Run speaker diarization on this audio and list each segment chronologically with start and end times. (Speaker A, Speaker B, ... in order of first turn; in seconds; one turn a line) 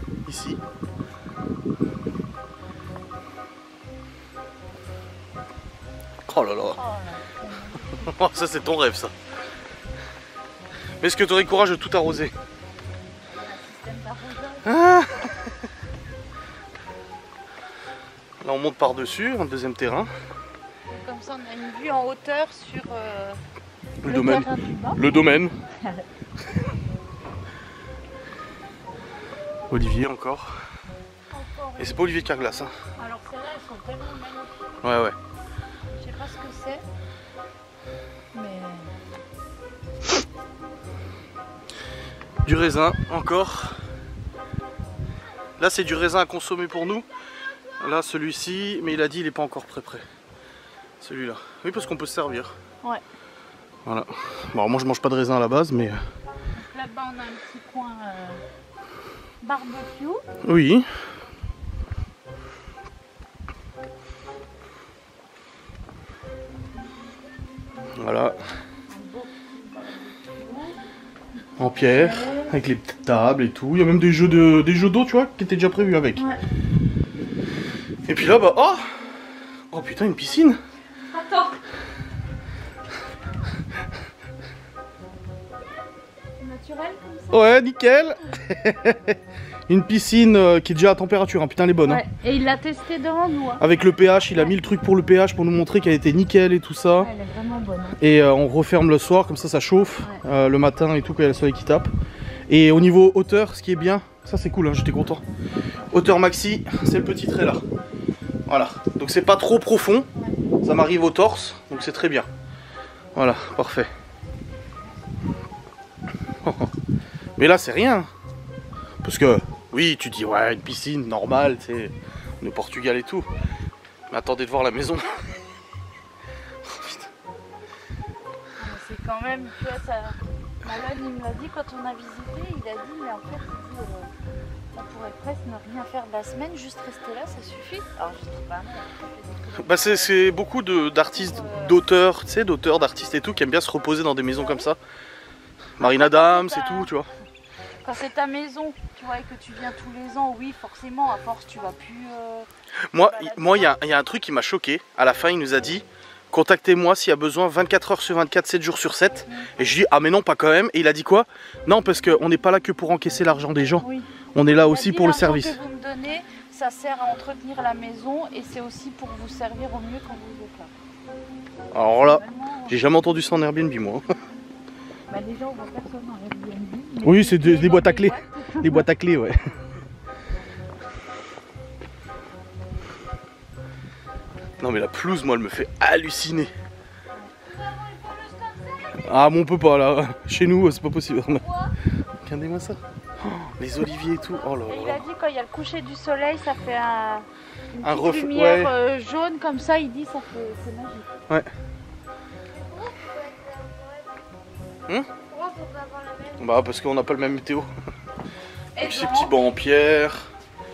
Speaker A: 0.2-0.6
Speaker A: 6.2-6.8
Speaker B: 6.7-8.1
Speaker A: 8.0-9.1
Speaker A: 11.0-12.3
Speaker B: 13.3-14.7
Speaker A: 14.6-15.5
Speaker A: 18.4-20.1
Speaker B: 20.9-23.4
Speaker A: 24.0-25.6
Speaker B: 24.0-25.2
Speaker A: 29.7-30.5
Speaker B: 31.3-34.6
Speaker A: 31.8-32.7
Speaker A: 34.8-35.1
Speaker B: 35.9-36.8
Speaker B: 38.3-38.9
Speaker A: 42.4-43.8
Speaker A: 45.6-47.0
Speaker A: 47.8-50.0
Speaker A: 51.0-52.6
Speaker A: 53.9-56.0
Speaker B: 56.5-58.4
Speaker B: 59.4-60.2
Speaker A: 60.4-60.9
Speaker A: 68.0-68.4
Speaker B: 68.9-70.8
Speaker A: 71.6-76.2
Speaker B: 71.6-72.6
Speaker A: 78.1-78.8
Speaker A: 79.7-80.6
Speaker B: 81.1-81.6
Speaker B: 86.4-87.4
Speaker A: 87.3-89.2
Speaker A: 89.7-92.0
Speaker B: 91.8-93.6
Speaker A: 93.6-97.1
Speaker B: 94.3-94.5
Speaker B: 97.0-98.0
Speaker A: 98.0-101.9
Speaker A: 102.5-105.2
Speaker A: 105.9-107.6
Speaker A: 108.5-110.1
Speaker A: 110.6-112.3
Speaker A: 113.1-113.9
Speaker A: 116.4-116.7
Speaker A: 117.3-118.1
Speaker A: 119.0-123.3
Speaker A: 124.1-125.4
Speaker A: 126.6-127.1
Speaker B: 128.6-134.1
Speaker B: 134.7-140.3
Speaker A: 139.6-144.8
Speaker B: 141.1-141.8
Speaker B: 144.3-144.7
Speaker A: 145.8-147.1
Speaker B: 145.8-146.9
Speaker B: 147.8-152.5
Speaker A: 152.9-165.6
Speaker B: 153.0-153.8
Speaker B: 163.8-164.1
Speaker B: 164.6-170.7
Speaker A: 171.7-174.0
Speaker B: 171.9-172.9
Speaker B: 175.1-178.9
Speaker A: 177.0-179.3
Speaker A: 184.6-186.5
Speaker C: 187.5-189.1
Speaker A: 189.0-191.4
Speaker C: 191.4-191.7
Speaker A: 192.2-195.0
Speaker B: 194.7-201.1
Speaker A: 197.8-198.7
Speaker C: 202.5-204.1
Speaker C: 205.3-206.5
Speaker A: 206.4-207.7
Speaker B: 208.7-209.3
Speaker A: 208.8-210.3